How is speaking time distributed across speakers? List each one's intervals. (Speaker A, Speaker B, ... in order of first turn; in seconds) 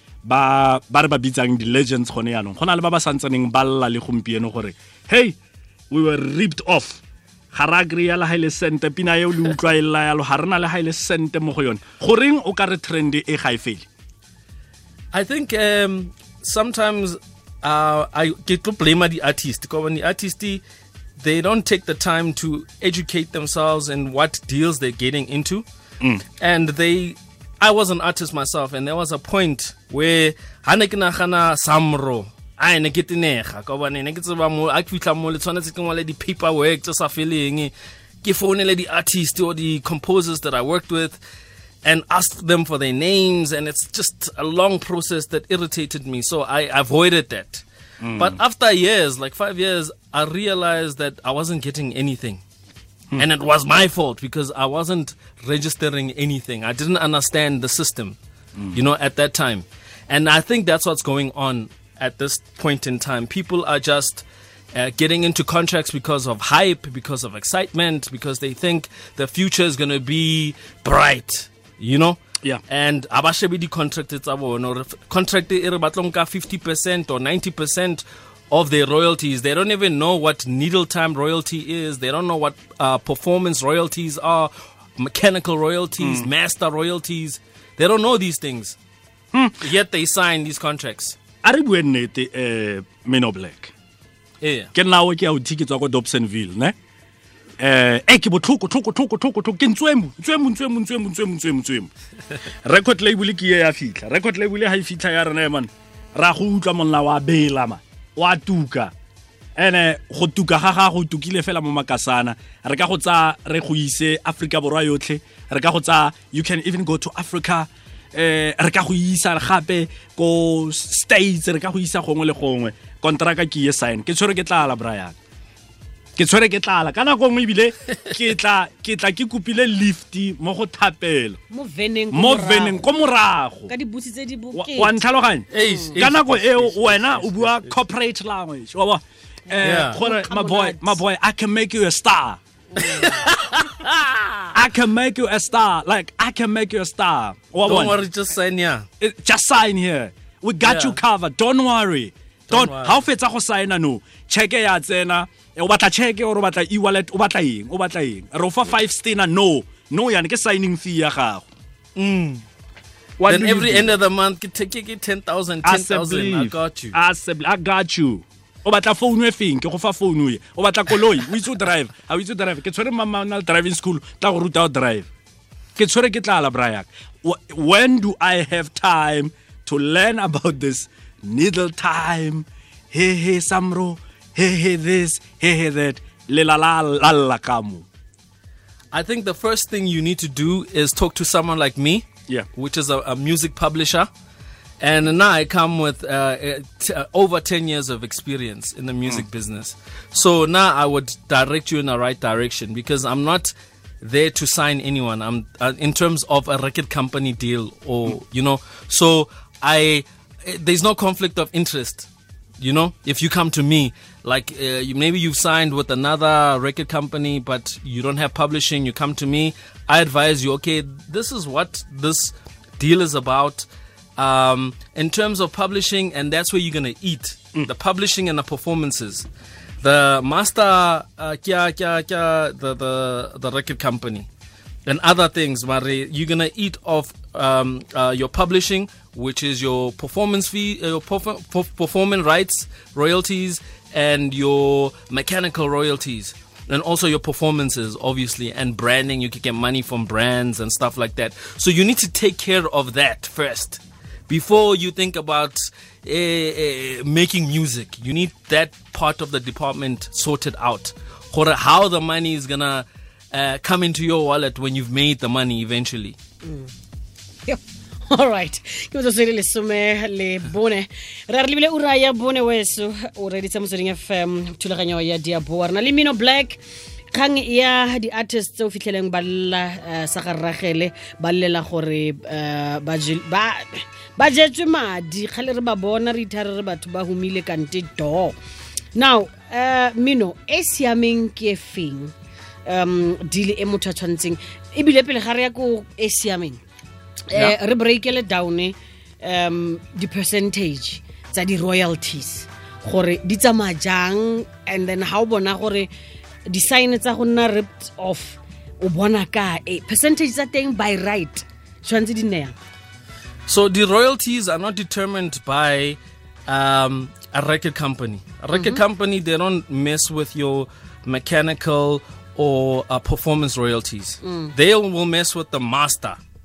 Speaker A: 0.2-5.4, 5.9-7.0, 7.5-13.9, 48.0-48.4, 86.0-86.3, 89.3-89.6, 91.4-93.7, 94.7-96.8, 97.6-101.9, 102.4-108.9, 109.6-125.2, 126.2-131.4, 132.1-133.7, 134.5-142.4, 144.5-148.0, 149.0-161.5, 163.2-163.9, 165.6-175.1, 175.8-187.9
Speaker B: 15.1-20.6, 21.2-25.7, 26.4-41.2, 41.8-47.6, 48.2-52.4, 53.2-58.2, 58.7-88.8, 89.6-91.2, 94.4-94.7, 135.5-137.8, 139.6-140.0, 142.8-144.5, 147.7-148.9, 150.6-151.0, 152.5-153.0, 162.0-162.4, 163.2-167.0, 188.9-194.1, 194.8-229.3, 229.8-234.3, 234.9-266.2, 313.5-326.2
Speaker C: 131.5-132.9, 133.7-135.0, 135.6-135.9, 139.5-141.0, 142.7-143.1, 266.4-266.7, 267.5-276.6, 277.1-288.4, 288.9-292.1, 292.7-296.6, 297.3-305.9, 306.5-312.6, 318.5-318.8, 324.2-324.5